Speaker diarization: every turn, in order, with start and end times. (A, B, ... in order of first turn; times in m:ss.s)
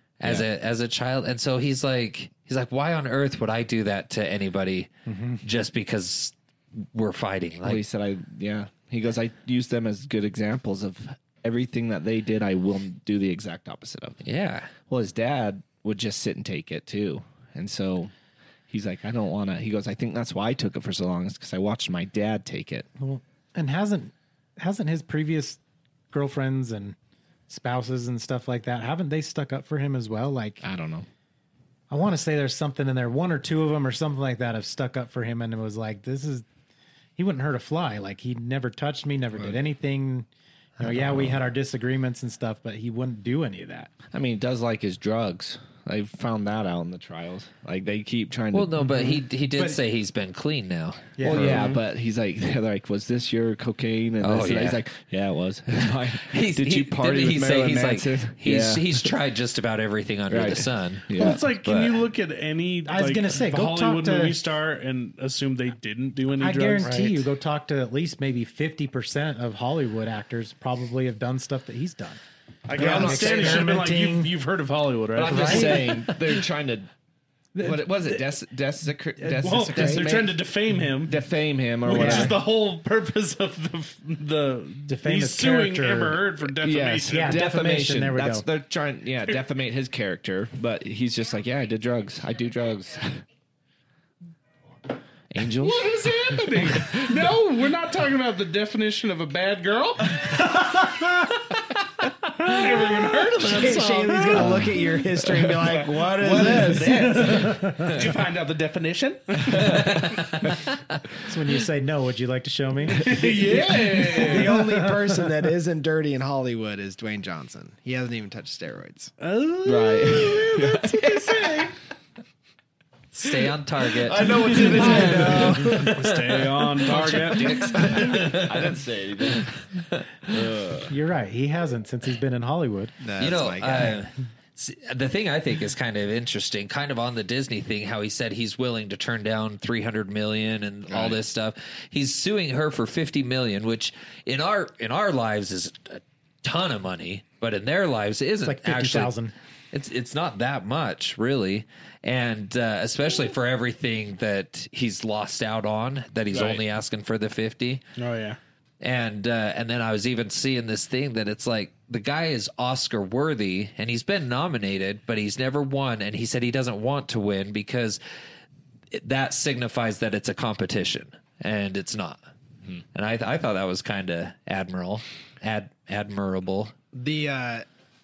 0:00.2-0:04.9 A
0:05.1-0:05.4 B
0:05.4-0:06.3 A
0:06.9-0:07.8 A
0:07.6-0:14.2 C
0:14.2-0:14.7 A
0:14.9-0:18.1 C
0:18.7-0:22.9 C
0:23.0-0:25.6 B
0:26.1-0:27.0 B
0:27.5-0:30.6 B
0:30.6-0:31.1 C
0:31.9-0:36.4 B
0:37.2-0:40.3 B
0:40.8-0:43.9 B
0:40.8-0:41.4 C
0:44.1-0:48.9 C
0:48.5-0:51.7 A
0:49.0-0:49.8 B
0:51.2-0:51.8 B
0:51.2-0:59.1 C
0:54.2-0:54.8 A
0:56.2-1:02.0 A
1:00.3-1:01.4 C
1:01.1-1:07.3 D
1:02.9-1:04.4 B
1:06.4-1:12.2 B
1:12.7-1:16.0 D
1:12.7-1:13.8 C
1:12.8-1:14.3 B
1:15.1-1:16.9 C
1:15.2-1:16.0 B
1:17.6-1:17.8 B
1:17.6-1:20.4 C
1:19.4-1:21.2 D
1:19.5-1:20.1 E
1:21.0-1:22.4 C
1:21.8-1:27.4 D
1:21.9-1:22.4 B
1:24.9-1:26.2 B
1:26.6-1:33.2 C
1:27.1-1:28.5 B
1:35.3-1:35.9 C
1:35.5-1:40.9 D
1:36.6-1:37.2 C
1:42.4-1:44.6 D
1:43.4-1:47.2 E
1:44.3-1:45.5 C
1:45.7-1:50.1 D
1:46.4-1:48.0 B
1:49.6-1:50.5 A
1:51.2-1:53.2 B
1:52.9-1:54.5 D
1:53.4-1:59.1 E
1:54.3-1:55.0 B
1:59.2-2:01.7 D
1:59.6-2:01.7 C
2:03.2-2:04.4 A
2:03.9-2:05.9 C
2:04.4-2:08.5 D
2:04.6-2:05.8 E
2:05.8-2:08.5 A
2:06.8-2:10.9 C
2:10.9-2:12.9 B
2:13.0-2:14.0 E
2:13.2-2:29.1 A
2:20.9-2:21.2 C
2:28.4-2:29.3 B
2:29.7-2:37.8 A
2:36.3-2:36.6 D
2:38.0-2:38.4 D
2:38.8-2:48.0 A
2:48.9-2:52.2 A
2:52.9-2:56.7 A
2:56.9-2:57.6 E